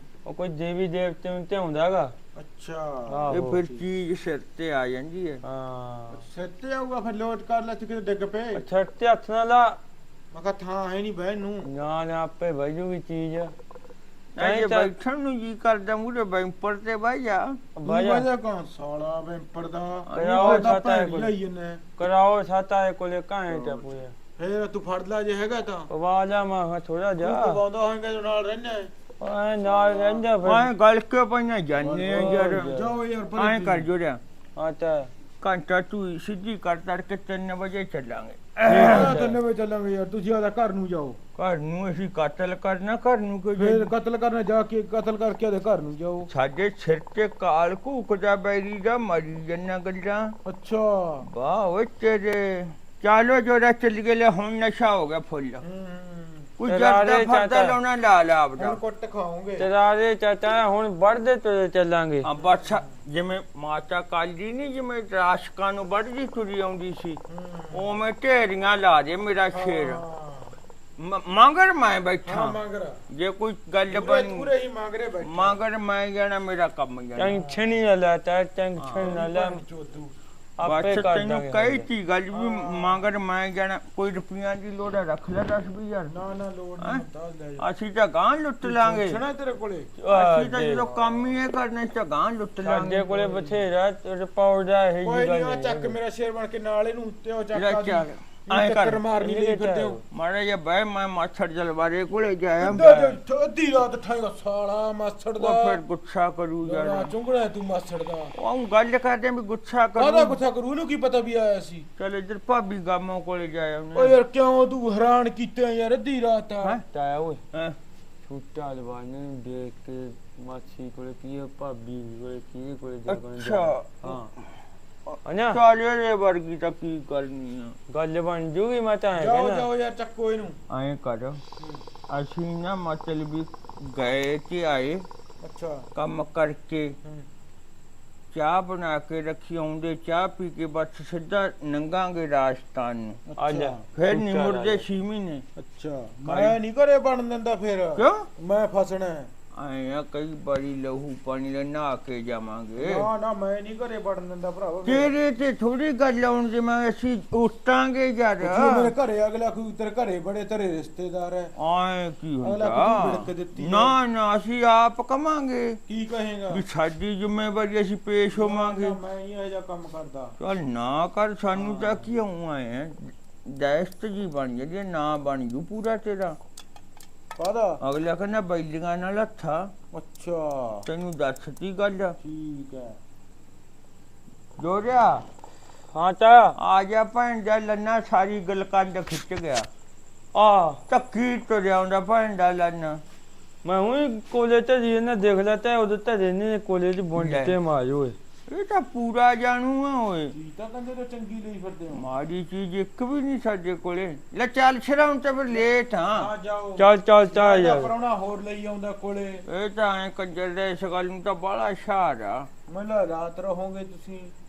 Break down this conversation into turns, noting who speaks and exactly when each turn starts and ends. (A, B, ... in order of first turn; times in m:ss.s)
0:00.2-0:02.1 A
0:02.4-0:03.8 B
0:03.1-0:03.6 A
0:03.3-0:05.4 C
0:05.4-0:06.2 A
0:06.1-0:08.6 B
0:08.6-0:09.8 A
0:10.3-0:11.7 B
0:11.7-0:13.5 A
0:14.4-0:17.6 C
0:14.4-0:14.9 A
0:17.8-0:18.3 A
0:17.8-0:22.0 B
0:20.1-0:20.7 C
0:20.2-0:21.3 A
0:22.0-0:24.1 A
0:23.5-0:25.9 B
0:25.9-0:27.6 A
0:27.2-0:28.9 B
0:29.2-0:30.7 A
0:29.6-0:30.3 B
0:30.4-0:32.7 C
0:31.8-0:33.9 B
0:32.1-0:32.9 A
0:33.4-0:34.2 C
0:34.6-0:35.1 A
0:35.4-0:39.2 C
0:38.7-0:39.4 A
0:38.7-0:41.2 B
0:41.4-0:43.9 C
0:43.6-0:46.3 B
0:46.3-0:50.4 C
0:50.4-0:51.3 B
0:51.2-0:55.6 C
0:55.6-0:56.5 B
0:56.6-0:58.8 C
0:56.7-0:57.8 A
0:58.6-0:59.7 B
0:59.6-1:02.3 A
1:02.2-1:07.2 C
1:02.4-1:03.0 B
1:07.3-1:07.9 B
1:07.7-1:10.0 C
1:09.5-1:10.6 B
1:11.0-1:12.6 C
1:12.3-1:13.0 B
1:13.1-1:14.5 C
1:13.9-1:15.6 B
1:15.2-1:17.3 C
1:17.2-1:19.6 A
1:17.3-1:17.8 B
1:18.8-1:19.1 C
1:18.9-1:20.1 B
1:20.6-1:21.8 A
1:20.6-1:26.1 C
1:22.3-1:23.0 B
1:26.1-1:27.6 B
1:27.6-1:29.2 C
1:28.6-1:29.9 B
1:30.0-1:30.9 A
1:30.1-1:33.2 C
1:30.8-1:31.4 B
1:32.6-1:36.0 A
1:33.1-1:33.6 B
1:35.0-1:40.0 B
1:37.5-1:39.0 C
1:39.2-1:40.0 A
1:40.1-1:43.2 C
1:42.6-1:45.8 B
1:45.4-1:47.1 C
1:46.6-1:48.3 B
1:48.4-1:50.4 C
1:50.0-1:51.9 B
1:52.0-1:54.2 C
1:53.9-1:56.8 B
1:56.9-1:57.4 A
1:58.3-2:04.3 A
2:03.1-2:04.2 C
2:05.1-2:07.8 C
2:05.2-2:05.6 A
2:07.9-2:09.7 A
2:09.2-2:10.6 B
2:10.7-2:11.4 C
2:11.6-2:11.8 B
2:12.1-2:15.1 C
2:15.4-2:15.8 B
2:15.9-2:16.9 C
2:18.3-2:23.2 C
2:23.3-2:23.8 B
2:23.4-2:24.8 A
2:23.9-2:25.4 C
2:25.6-2:29.3 B
2:26.2-2:26.6 C
2:28.0-2:28.3 C
2:29.6-2:33.1 C
2:32.8-2:35.2 B
2:34.8-2:38.9 C
2:38.4-2:41.5 B
2:41.6-2:45.8 C
2:42.4-2:44.0 B
2:45.9-2:46.6 B
2:46.5-2:49.0 C
2:48.3-2:50.4 B
2:50.4-2:56.4 C
2:51.5-2:52.1 B
2:57.4-2:57.8 B
2:57.8-2:59.7 C
2:59.9-3:00.9 B
3:00.8-3:02.2 C
3:02.2-3:03.0 B
3:04.6-3:05.2 C
3:05.9-3:06.6 A
3:06.6-3:09.7 C
3:10.3-3:10.8 A
3:10.9-3:13.0 C
3:13.6-3:18.2 A
3:17.2-3:17.6 C
3:18.5-3:20.3 C
3:20.3-3:22.0 B
3:21.9-3:26.3 C
3:25.5-3:29.4 B
3:26.8-3:27.9 A
3:29.5-3:32.5 C
3:32.7-3:34.3 B